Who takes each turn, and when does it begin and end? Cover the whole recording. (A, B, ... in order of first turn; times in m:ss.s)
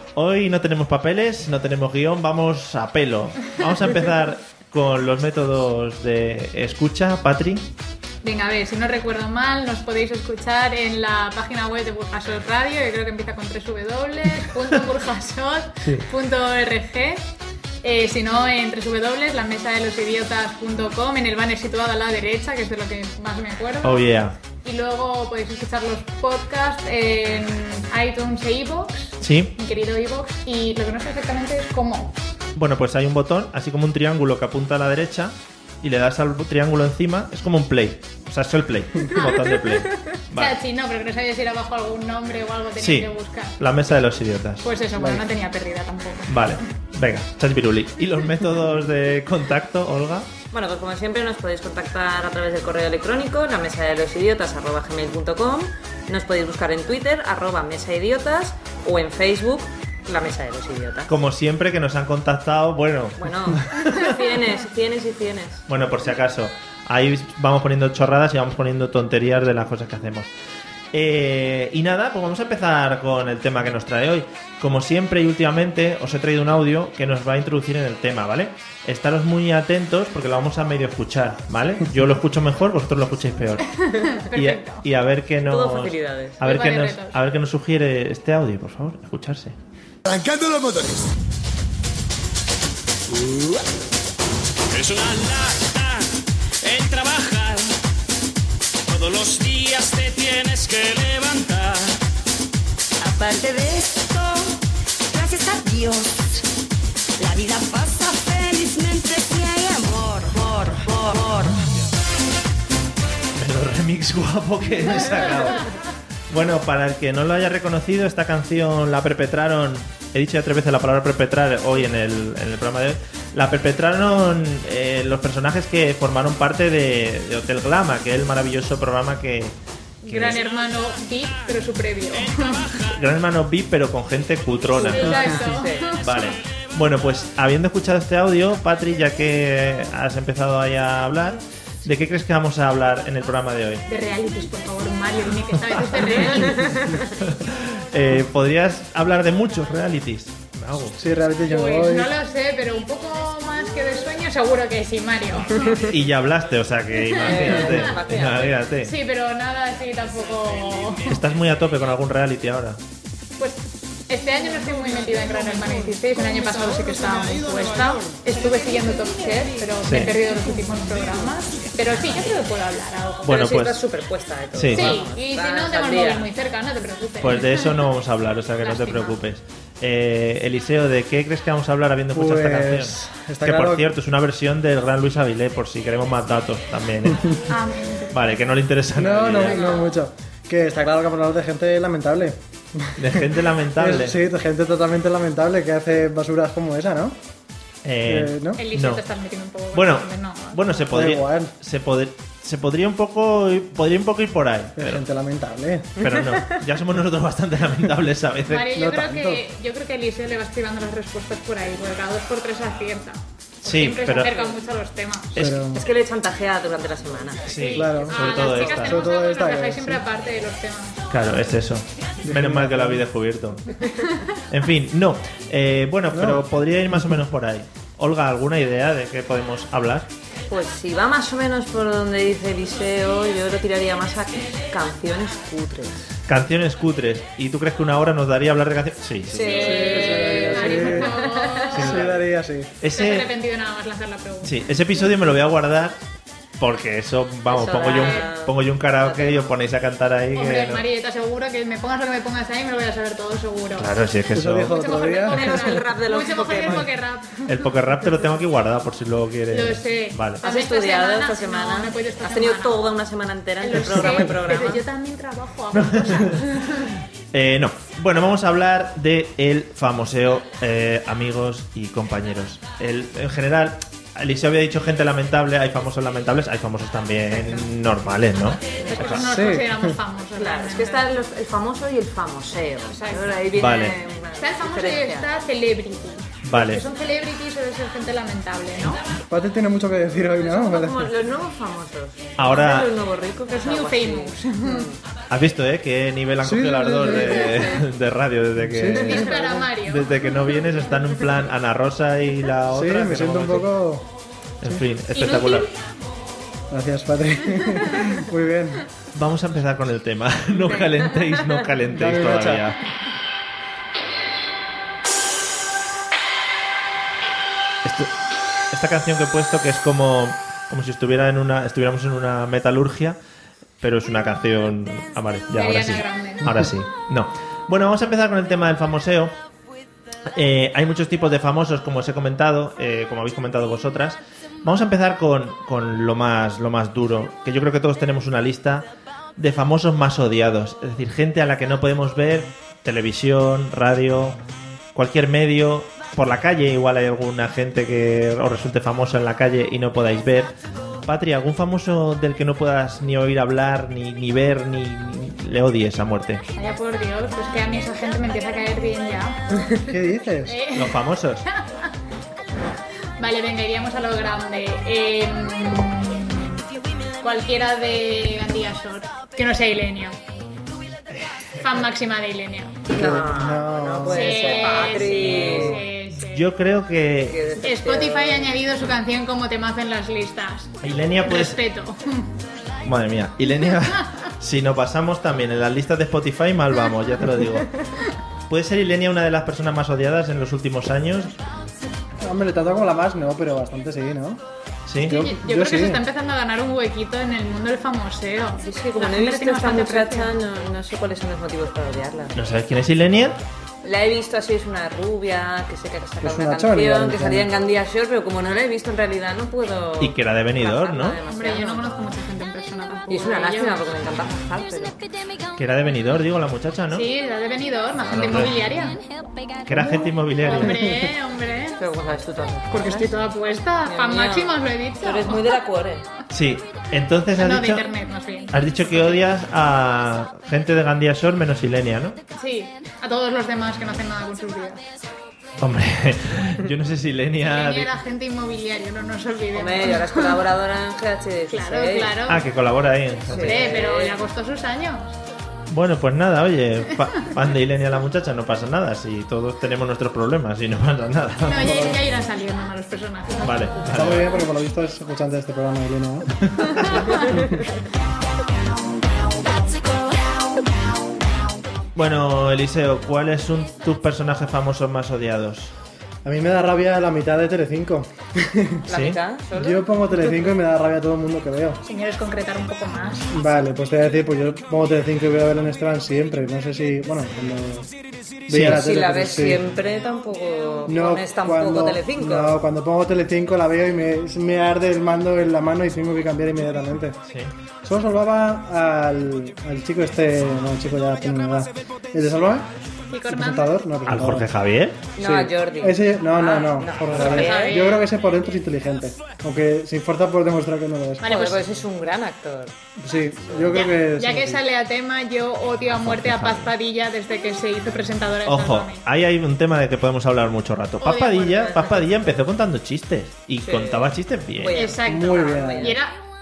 0:00.1-0:07.7 A
0:08.2-0:17.2 B
0:17.8-0:24.1 B
0:23.8-0:24.3 A
0:24.6-0:32.2 B
0:29.2-0:29.5 A
0:32.6-0:40.6 A
0:39.1-0:39.9 C
0:40.3-0:43.6 B
0:42.8-0:44.6 A
0:44.6-0:46.3 B
0:45.0-0:45.2 D
0:46.3-0:50.3 A
0:50.5-1:01.1 C
1:01.1-1:04.1 A
1:03.2-1:05.6 C
1:05.7-1:10.3 A
1:10.9-1:23.6 A
1:23.7-1:24.8 B
1:24.3-1:29.5 A
1:25.5-1:26.4 C
1:26.4-1:27.2 B
1:30.1-1:31.0 E
1:34.7-1:36.1 F
1:36.6-1:37.7 F
1:38.8-1:42.0 F
1:43.0-1:44.6 E
1:45.1-1:46.4 E
1:47.2-1:51.7 E
1:53.4-1:55.7 A
1:56.3-2:09.6 A
2:10.0-2:12.6 B
2:10.1-2:10.4 A
2:12.1-2:13.0 F
2:12.9-2:23.8 A
2:14.7-2:16.4 B
2:14.7-2:16.0 C
2:23.9-2:26.8 B
2:26.3-2:27.0 C
2:27.2-2:31.0 A
2:31.0-2:32.1 D
2:31.5-2:35.8 B
2:35.9-2:38.9 A
2:37.2-2:38.6 C
2:37.4-2:37.7 B
2:38.8-2:41.2 B
2:41.1-2:42.8 A
2:43.4-2:53.4 B
2:49.8-2:50.1 A
2:53.2-2:53.8 A
2:53.2-2:56.3 C
2:54.5-2:55.0 A
2:54.7-2:57.8 B
2:57.2-3:07.4 A
2:58.6-2:59.2 B
3:02.1-3:04.0 D
3:07.5-3:08.2 B
3:08.1-3:09.7 A
3:08.9-3:17.2 D
3:09.4-3:09.9 B
3:13.0-3:14.2 A
3:17.8-3:19.0 A
3:18.0-3:18.6 D
3:18.6-3:20.6 B
3:19.7-3:25.0 A
3:20.9-3:21.5 D
3:24.8-3:26.0 D
3:26.0-3:28.8 A
3:26.0-3:26.6 C
3:28.5-3:35.4 B
3:28.7-3:29.4 D
3:33.6-3:34.3 A
3:34.2-3:34.6 C
3:35.4-3:35.8 D
3:35.7-3:37.9 C
3:37.5-3:39.0 A
3:37.5-3:41.0 B
3:37.7-3:40.0 D
3:41.1-3:43.8 A
3:42.2-3:43.0 D
3:43.8-3:44.3 B
3:44.5-3:50.1 A
3:46.1-3:47.2 D
3:50.5-3:56.1 C
3:56.3-4:00.3 A
3:59.3-4:01.9 C
3:59.4-4:02.0 B
3:59.6-4:02.7 D
4:01.8-4:02.2 A
4:02.8-4:03.3 A
4:02.9-4:04.5 B
4:04.4-4:06.0 A
4:06.6-4:10.8 A
4:07.5-4:09.6 C
4:07.8-4:08.2 B
4:10.3-4:13.9 B
4:13.8-4:14.7 A
4:14.3-4:15.7 D
4:14.7-4:17.5 B
4:15.2-4:16.9 C
4:17.4-4:20.4 A
4:19.5-4:22.8 B
4:20.4-4:24.8 C
4:23.6-4:26.9 B
4:25.7-4:26.5 A
4:27.3-4:39.3 A
4:37.3-4:37.7 B
4:38.8-4:39.1 C
4:38.8-4:41.0 B
4:39.2-4:40.0 D
4:40.3-4:45.3 C
4:42.9-4:43.4 B
4:43.5-4:44.0 A
4:44.4-4:49.0 B
4:46.4-4:46.8 A
4:49.3-4:51.1 D
4:50.4-4:55.0 C
4:52.4-4:52.9 A
4:53.5-4:54.9 B
4:55.3-5:03.7 A
4:56.4-4:57.8 D
4:58.6-4:59.7 D
4:59.1-5:00.2 B
5:02.7-5:04.0 D
5:04.6-5:05.7 A
5:05.2-5:05.5 C
5:06.7-5:08.8 D
5:09.1-5:12.9 A
5:10.5-5:11.8 C
5:11.9-5:12.7 D
5:17.8-5:18.1 A
5:18.7-5:23.2 A
5:23.8-5:29.3 A
5:25.5-5:26.6 B
5:30.3-5:44.4 A
5:44.9-5:50.5 A
5:51.0-5:56.4 A
5:56.5-5:59.4 B
5:59.8-6:00.6 D
6:00.5-6:01.1 B
6:00.7-6:01.4 A
6:03.2-6:06.6 B
6:07.2-6:10.2 B
6:11.1-6:11.8 A
6:11.6-6:12.8 B
6:12.9-6:15.8 C
6:12.9-6:15.8 D
6:14.1-6:16.5 B
6:16.2-6:17.4 A
6:17.3-6:18.6 C
6:17.6-6:22.3 B
6:20.8-6:21.6 A
6:22.8-6:27.8 A
6:28.5-6:31.3 A
6:32.2-6:34.4 D
6:34.9-6:35.2 A
6:35.0-6:36.0 D
6:35.0-6:40.3 B
6:38.6-6:42.3 C
6:42.3-6:43.4 A
6:43.8-6:52.1 C
6:46.2-6:47.5 D
6:50.0-6:51.2 A
6:51.3-6:53.9 B
6:53.1-6:55.0 C
6:55.6-6:57.1 A
6:56.9-6:59.0 B
6:58.0-6:58.6 A
6:59.6-7:00.9 A
6:59.7-7:00.0 D
7:00.4-7:01.8 B
7:00.6-7:01.1 D
7:01.8-7:03.1 C
7:02.7-7:05.6 B
7:03.8-7:06.0 C
7:06.3-7:07.9 A
7:07.4-7:08.5 B
7:08.5-7:12.2 A
7:12.4-7:14.8 B
7:15.6-7:17.9 A
7:17.4-7:20.4 B
7:19.5-7:22.2 C
7:21.5-7:22.4 B
7:22.3-7:23.7 A
7:23.3-7:24.2 C
7:23.3-7:25.2 B
7:25.7-7:31.8 A
7:31.4-7:33.7 B
7:31.6-7:32.0 D
7:33.4-7:34.4 A
7:33.8-7:36.7 D
7:36.6-7:37.3 A
7:37.3-7:37.6 D
7:41.9-7:45.7 A
7:46.2-7:48.8 D
7:48.9-7:50.3 C
7:48.9-7:49.2 A
7:49.5-7:51.8 D
7:51.8-7:53.3 B
7:53.3-7:57.9 D
7:58.4-7:59.6 D
7:58.5-7:58.8 A
7:58.6-8:02.6 C
8:00.8-8:07.2 D
8:07.8-8:12.7 D
8:13.1-8:13.8 B
8:13.3-8:14.5 D
8:14.1-8:15.0 A
8:15.2-8:17.9 C
8:15.2-8:21.4 D
8:17.2-8:18.1 B
8:21.2-8:21.6 B
8:21.2-8:22.7 C
8:23.0-8:24.6 D
8:23.7-8:29.0 B
8:26.0-8:26.7 A
8:28.4-8:34.8 A
8:31.0-8:31.9 B
8:31.7-8:32.1 C
8:33.6-8:36.0 C
8:34.7-8:36.2 B
8:35.0-8:36.0 D